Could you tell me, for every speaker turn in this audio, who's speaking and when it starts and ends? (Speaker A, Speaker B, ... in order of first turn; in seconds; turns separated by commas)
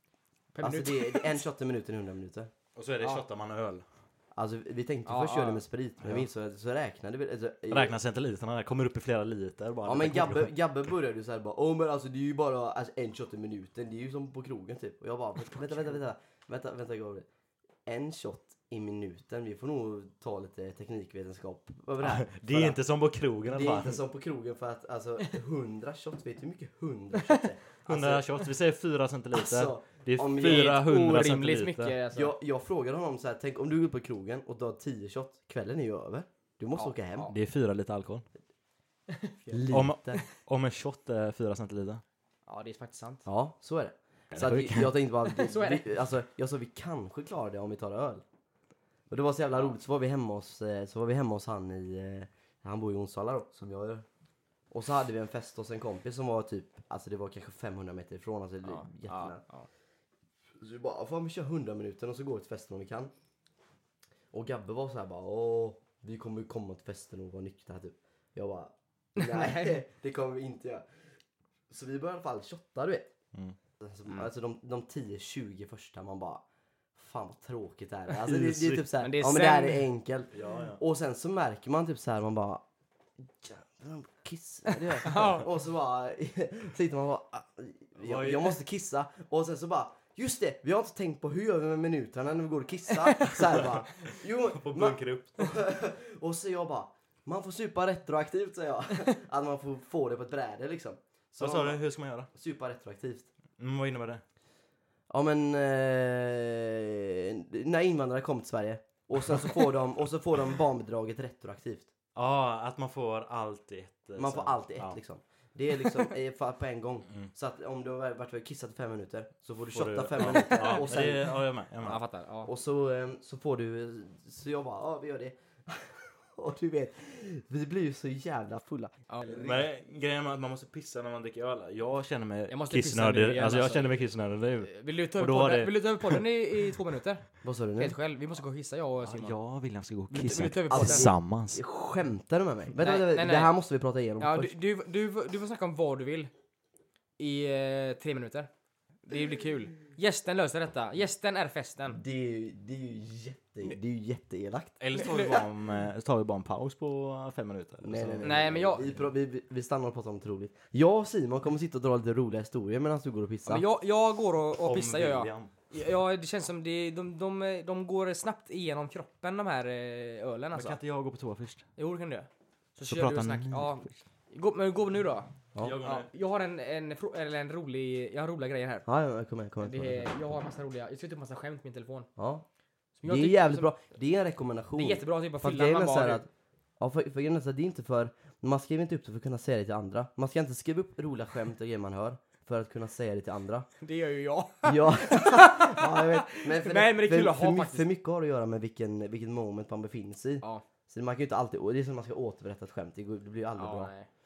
Speaker A: 0.5-1.4, Speaker B: 0.6-2.5, Speaker C: 2.8-3.9, Speaker B: 4.3-7.9, Speaker A: 5.0-5.6, Speaker C: 7.7-10.5, Speaker B: 9.8-17.3, Speaker B: 17.9-22.8, Speaker C: 22.0-24.0, Speaker B: 23.4-28.2, Speaker C: 27.9-32.0, Speaker B: 29.3-30.8, Speaker A: 30.4-32.3, Speaker B: 32.1-37.3, Speaker A: 36.7-37.3, Speaker C: 37.3-38.2, Speaker A: 39.1-39.8, Speaker B: 39.5-40.2, Speaker C: 39.7-42.0, Speaker A: 42.5-43.3, Speaker B: 43.2-48.2, Speaker C: 44.3-45.0, Speaker A: 45.2-45.9, Speaker B: 49.1-54.0, Speaker B: 54.7-59.4, Speaker A: 58.6-59.7, Speaker B: 60.6-63.1, Speaker B: 64.3-70.8, Speaker A: 69.2-69.8, Speaker B: 71.7-73.1, Speaker B: 73.8-76.4, Speaker B: 76.9-82.6, Speaker C: 78.2-78.9, Speaker A: 79.0-79.9, Speaker C: 80.3-80.8, Speaker B: 83.2-101.8, Speaker A: 85.0-85.5, Speaker C: 88.0-88.6, Speaker C: 93.5-95.5, Speaker C: 101.3-102.3, Speaker B: 102.3-103.3, Speaker C: 103.6-104.2, Speaker B: 105.1-111.9, Speaker C: 112.1-115.0, Speaker B: 114.2-121.4, Speaker C: 119.7-122.0, Speaker A: 121.8-122.5, Speaker B: 122.4-129.6, Speaker A: 129.1-129.5, Speaker C: 129.4-136.2, Speaker A: 132.5-134.0, Speaker A: 134.6-139.4, Speaker B: 137.4-137.9, Speaker C: 139.0-141.6, Speaker A: 140.1-141.1, Speaker B: 140.7-144.5, Speaker A: 142.8-143.5, Speaker A: 144.2-146.3, Speaker A: 147.2-148.5, Speaker A: 149.1-152.0, Speaker B: 151.9-155.4, Speaker C: 154.8-158.9, Speaker A: 154.9-155.4, Speaker B: 157.8-163.6, Speaker A: 158.2-158.9, Speaker A: 163.4-170.8, Speaker C: 164.6-165.5, Speaker C: 170.5-171.7, Speaker A: 171.8-178.9, Speaker C: 172.8-173.7, Speaker C: 175.6-176.1, Speaker B: 178.9-180.1, Speaker A: 179.6-182.1, Speaker B: 182.2-182.4, Speaker A: 183.0-183.7, Speaker B: 183.1-186.3, Speaker A: 184.8-186.2, Speaker B: 186.8-193.7, Speaker A: 193.8-197.9, Speaker B: 194.6-203.9, Speaker A: 203.6-204.1